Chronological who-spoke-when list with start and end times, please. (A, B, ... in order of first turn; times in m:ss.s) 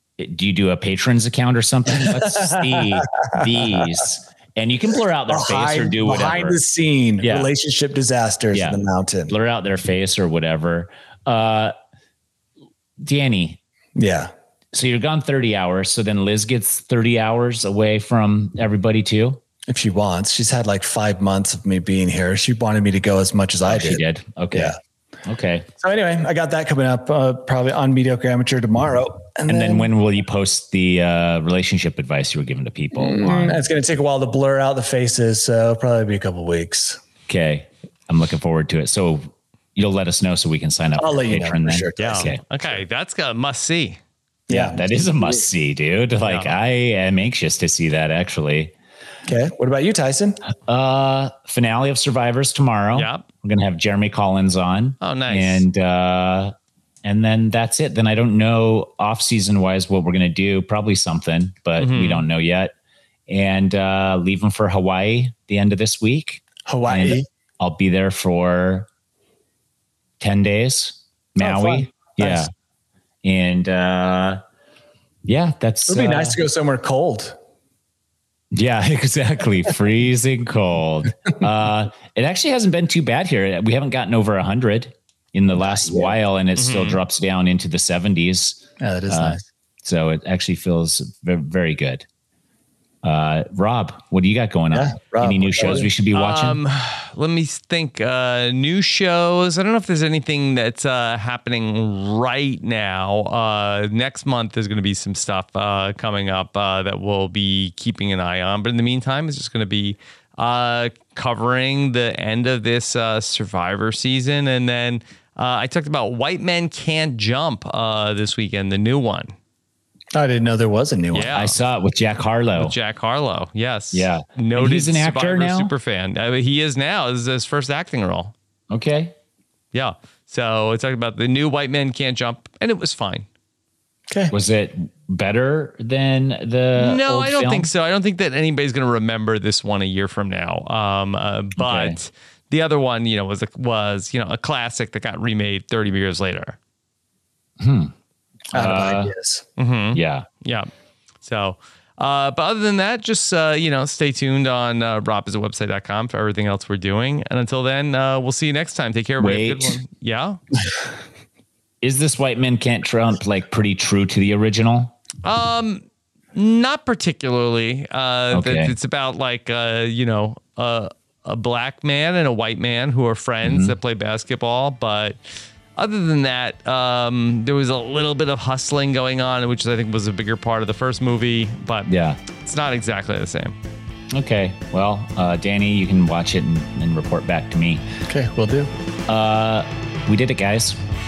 0:00.2-0:06.6 A
0:02.0-0:03.9 B
0:05.3-0:09.3 B
0:07.2-0:07.5 A
0:08.5-0:11.7 A
0:13.0-0:13.6 A
0:14.0-0:14.3 B
0:14.7-0:19.4 A
0:19.7-0:24.0 B
0:23.6-0:25.7 A
0:24.5-0:24.8 B
0:25.8-0:29.9 B
0:29.5-0:33.6 A
0:33.0-0:37.0 B
0:37.3-0:42.4 A
0:41.0-0:42.4 B
0:42.0-0:44.0 C
0:44.5-0:45.5 B
0:44.5-0:48.7 A
0:46.2-0:46.6 C
0:49.3-0:50.4 B
0:50.5-1:02.7 A
0:52.9-0:53.2 C
0:55.0-0:55.6 C
1:01.8-1:02.2 C
1:03.3-1:08.9 A
1:06.7-1:07.3 B
1:10.2-1:12.5 A
1:11.4-1:12.5 B
1:13.2-1:14.4 A
1:15.2-1:16.4 A
1:15.9-1:17.4 B
1:18.5-1:32.1 A
1:25.7-1:26.1 B
1:26.6-1:27.0 C
1:28.8-1:29.4 B
1:33.0-1:36.6 A
1:34.7-1:35.9 B
1:35.6-1:59.3 C
2:00.2-2:01.3 B
2:01.1-2:01.6 C
2:01.3-2:02.8 A
2:02.6-2:08.3 C
2:03.9-2:05.7 A
2:08.7-2:09.2 A
2:09.7-2:13.3 C
2:14.3-2:17.7 A
2:16.8-2:26.6 C
2:21.6-2:22.0 A
2:27.6-2:27.9 A
2:28.5-2:29.4 B
2:28.5-2:29.1 A
2:29.6-2:30.7 C
2:29.9-2:30.3 A
2:31.2-2:40.4 C
2:39.2-2:39.8 A
2:41.8-2:45.0 A
2:45.2-2:55.2 C
2:48.3-2:48.8 A
2:53.4-2:53.8 A
2:55.8-3:03.6 C
3:01.9-3:02.2 A
3:04.1-3:07.8 A
3:08.1-3:08.7 B
3:09.1-3:10.8 A